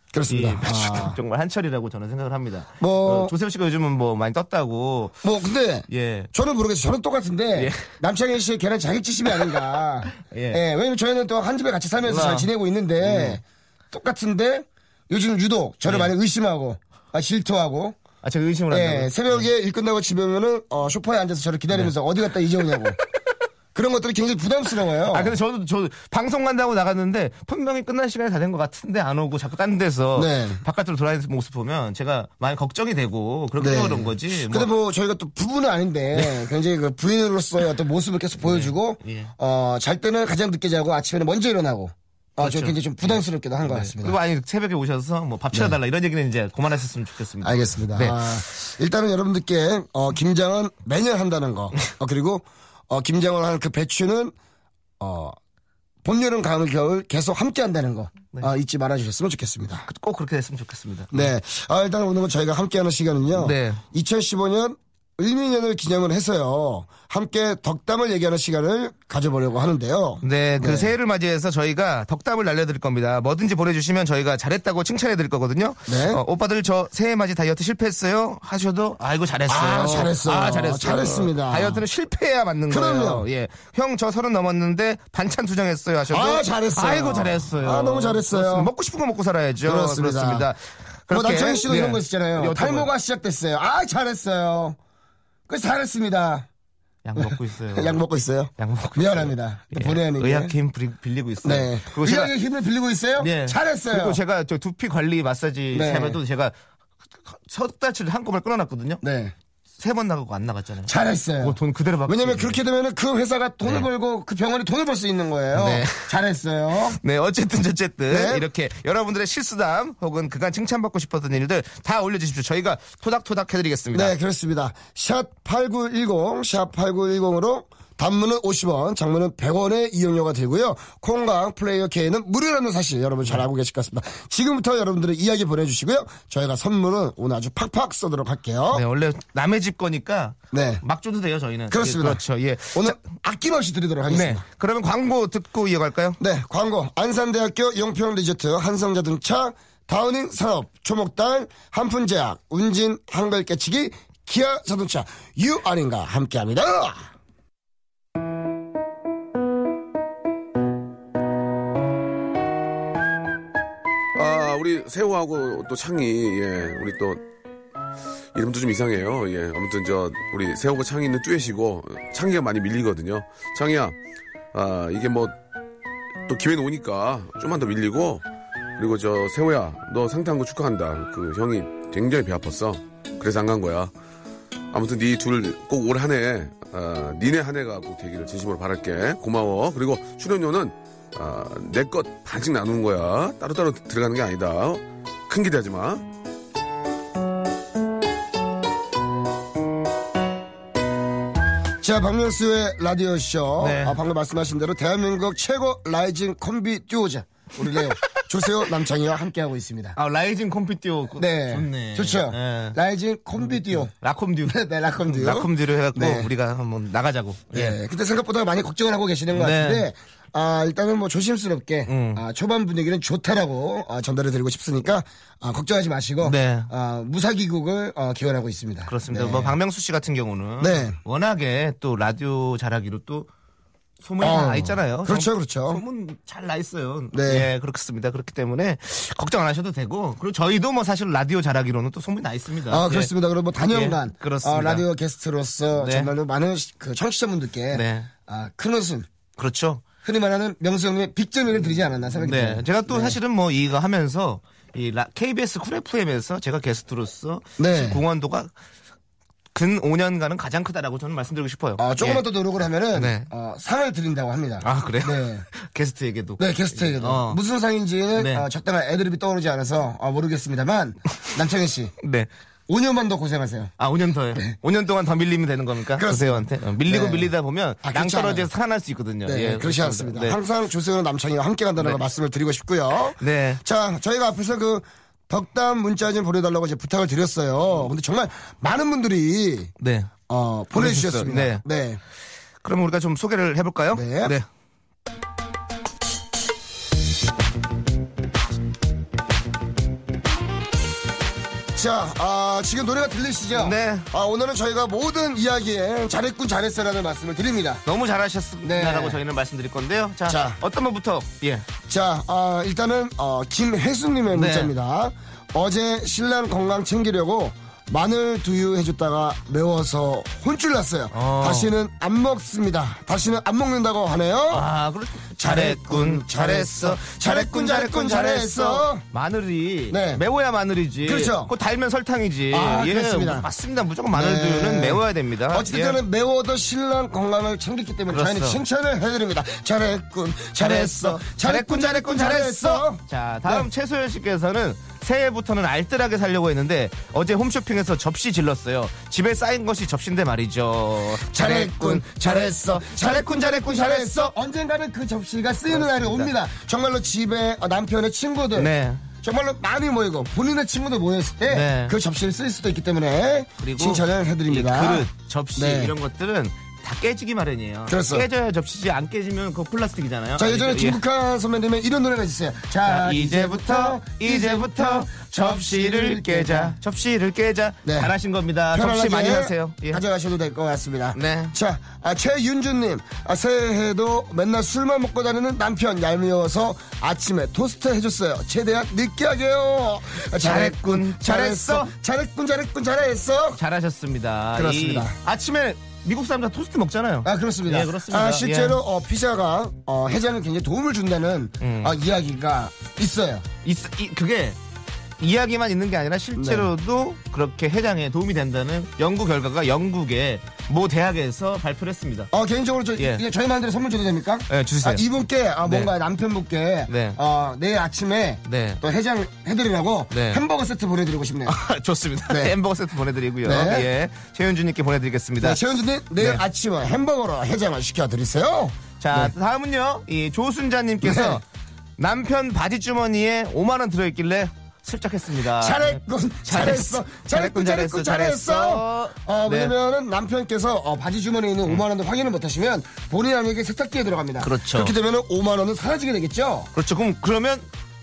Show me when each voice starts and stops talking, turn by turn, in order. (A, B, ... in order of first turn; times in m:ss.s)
0:00.1-0:01.2 A
0:00.3-0:05.2 B
0:02.8-0:03.3 A
0:05.2-0:18.0 A
0:05.9-0:06.3 B
0:07.6-0:07.9 B
0:10.2-0:10.6 B
0:12.0-0:12.5 B
0:13.0-0:13.4 B
0:18.2-0:19.4 B
0:18.7-0:23.0 A
0:23.8-0:25.4 A
0:25.1-0:34.7 B
0:30.2-0:30.6 A
0:33.6-0:44.2 A
0:38.4-0:39.3 B
0:42.4-0:48.2 B
0:47.4-0:54.3 A
0:55.0-0:55.4 A
0:56.0-0:59.8 A
0:59.9-1:01.3 B
1:01.1-1:10.9 A
1:03.3-1:03.8 B
1:10.2-1:32.9 B
1:15.9-1:16.2 A
1:19.5-1:21.8 A
1:22.7-1:23.2 A
1:26.1-1:28.7 A
1:29.6-1:30.5 A
1:31.1-1:34.8 A
1:35.5-1:36.5 A
1:37.0-1:38.0 B
1:37.2-1:40.5 A
1:38.6-1:42.3 B
1:41.4-1:44.2 A
1:43.2-1:46.5 B
1:45.7-1:46.2 A
1:47.3-1:49.0 B
1:49.0-1:49.3 A
1:49.8-1:52.6 B
1:50.9-1:57.0 A
1:55.6-1:56.1 B
1:57.0-2:04.2 B
1:58.1-1:58.5 A
2:03.9-2:18.8 A
2:18.7-2:23.0 B
2:20.5-2:20.8 A
2:21.7-2:22.2 A
2:22.8-2:24.4 A
2:24.1-2:26.2 B
2:26.2-2:37.1 A
2:44.2-2:47.2 C
2:48.4-2:53.9 C
2:54.5-2:55.3 C
2:56.3-2:58.2 C
2:58.8-3:03.9 C
3:04.7-3:16.0 C
3:21.8-3:30.0 A
3:23.6-3:24.0 B
3:27.6-3:28.3 B
3:30.0-3:32.8 B
3:31.2-3:33.9 A
3:33.9-3:37.8 B
3:34.5-3:36.3 A
3:37.5-3:49.6 A
3:39.3-3:39.8 B
3:41.9-3:42.2 B
3:46.2-3:46.7 B
3:48.9-3:53.3 B
3:50.6-3:51.0 A
3:54.0-4:03.1 B
3:54.2-3:55.8 A
3:57.1-3:57.5 A
4:02.7-4:09.1 A
4:03.7-4:04.8 B
4:05.8-4:06.1 B
4:07.7-4:08.1 B
4:09.4-4:09.8 B
4:10.0-4:13.2 A
4:12.2-4:18.5 B
4:17.6-4:18.0 A
4:19.5-4:22.2 B
4:21.8-4:25.4 A
4:23.0-4:23.3 B
4:24.6-4:27.4 B
4:26.4-4:31.9 A
4:28.2-4:28.5 B
4:32.0-4:32.3 B
4:32.7-4:33.7 A
4:33.8-4:40.4 B
4:36.0-4:37.3 A
4:37.8-4:38.5 A
4:39.3-4:49.7 A
4:43.2-4:43.6 B
4:49.8-4:50.1 B
4:50.3-4:52.0 A
4:50.7-4:51.6 B
4:52.6-4:54.5 B
4:53.9-4:54.3 A
5:01.8-5:07.8 A
5:03.5-5:04.1 B
5:07.9-5:11.7 B
5:08.6-5:09.2 A
5:10.3-5:10.6 A
5:11.9-5:24.7 A
5:14.3-5:14.7 B
5:21.1-5:21.7 B
5:24.5-5:36.0 B
5:25.4-5:29.0 A
5:29.9-5:30.2 A
5:31.0-5:31.5 A
5:32.5-5:33.5 A
5:34.1-5:43.7 A
5:38.1-5:38.6 B
5:40.6-5:54.3 B
5:51.3-6:05.9 A
5:55.7-5:56.3 B
5:58.6-5:59.1 B
6:01.5-6:02.0 B
6:03.6-6:11.0 B
6:07.9-6:08.3 A
6:10.4-6:16.8 A
6:12.8-6:20.0 B
6:17.8-6:18.1 A
6:18.7-6:33.6 A
6:21.1-6:21.5 B
6:30.4-6:31.9 B
6:33.6-6:38.8 B
6:34.6-6:35.2 A
6:37.2-6:43.4 A
6:41.6-6:42.0 B
6:43.6-6:44.6 B
6:45.2-6:52.3 B
6:46.4-6:46.7 A
6:52.3-7:01.6 A
6:53.0-6:53.2 B
6:54.5-6:55.0 B
6:55.6-6:55.9 B
6:56.9-6:57.2 B
6:58.5-6:58.8 B
7:00.1-7:00.4 B
7:01.5-7:05.6 B
7:02.3-7:02.5 A
7:03.4-7:03.9 A
7:05.4-7:09.3 A
7:09.0-7:11.4 B
7:11.0-7:11.4 A
7:12.0-7:19.7 B
7:15.5-7:26.7 A
7:24.4-7:24.9 B
7:26.8-7:27.7 B